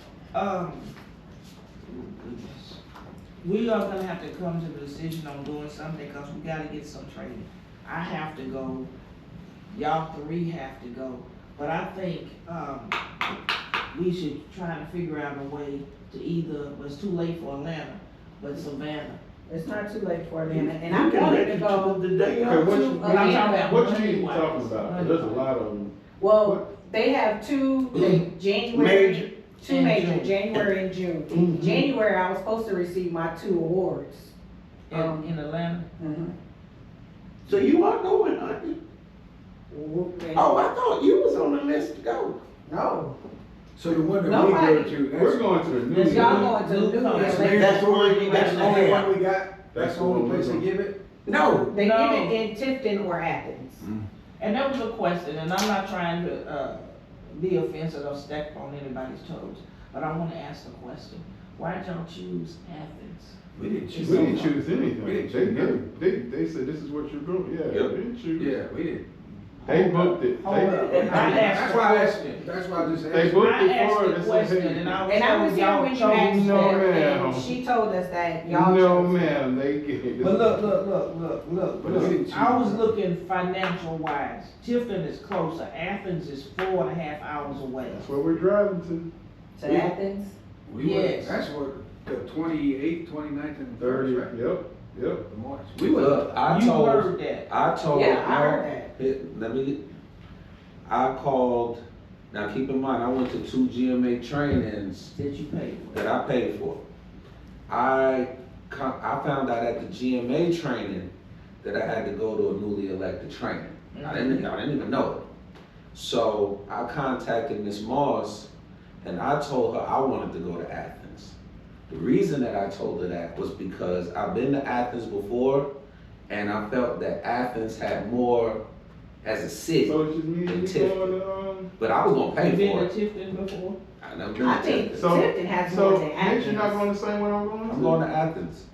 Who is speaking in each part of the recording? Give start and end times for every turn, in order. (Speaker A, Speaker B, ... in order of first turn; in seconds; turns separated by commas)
Speaker A: 0.3-0.9, Speaker A: 1.8-2.8, Speaker A: 3.4-8.9, Speaker A: 9.7-13.0, Speaker A: 13.9-19.2, Speaker B: 19.5-22.0, Speaker C: 20.4-23.1, Speaker D: 22.4-26.7, Speaker B: 22.9-23.6, Speaker A: 23.0-25.5, Speaker B: 26.2-34.3, Speaker C: 27.9-29.3, Speaker A: 29.6-30.4, Speaker C: 31.3-31.9, Speaker A: 34.9-35.9, Speaker B: 34.9-35.2, Speaker B: 36.0-36.3, Speaker C: 37.5-38.8, Speaker B: 39.7-40.7, Speaker C: 40.3-42.4, Speaker B: 42.7-43.1, Speaker E: 43.8-45.6, Speaker B: 44.1-45.0, Speaker D: 45.1-46.6, Speaker A: 45.9-49.0, Speaker B: 46.0-47.9, Speaker E: 47.1-51.0, Speaker C: 47.6-49.1, Speaker B: 48.4-48.9, Speaker D: 49.7-50.6, Speaker B: 51.3-53.9, Speaker A: 51.7-52.4, Speaker E: 53.8-54.1, Speaker A: 54.4-63.4, Speaker E: 63.5-65.8, Speaker D: 64.0-68.6, Speaker A: 64.0-64.4, Speaker E: 68.4-69.0, Speaker D: 69.7-70.9, Speaker B: 70.4-71.5, Speaker A: 70.4-72.4, Speaker C: 70.8-71.4, Speaker E: 71.0-73.5, Speaker D: 73.1-75.0, Speaker A: 73.4-76.9, Speaker B: 75.1-79.4, Speaker D: 76.2-77.5, Speaker D: 78.4-80.7, Speaker A: 80.2-88.1, Speaker E: 81.8-82.9, Speaker D: 87.8-89.1, Speaker B: 89.6-90.3, Speaker E: 90.7-94.3, Speaker A: 90.8-91.4, Speaker D: 93.8-95.2, Speaker E: 95.3-96.3, Speaker F: 95.8-99.8, Speaker A: 96.4-97.5, Speaker B: 97.9-98.9, Speaker F: 100.9-105.1, Speaker A: 105.1-106.1, Speaker F: 105.9-106.8, Speaker F: 107.7-111.1, Speaker F: 111.6-115.2, Speaker A: 113.9-114.5, Speaker F: 115.9-118.5, Speaker F: 119.0-121.3, Speaker F: 121.9-125.7, Speaker F: 126.3-128.6, Speaker F: 129.2-131.2, Speaker D: 129.8-131.7, Speaker F: 131.8-132.9, Speaker A: 132.3-133.8, Speaker F: 134.0-135.1, Speaker B: 134.4-136.8, Speaker D: 134.9-138.1, Speaker F: 137.7-138.7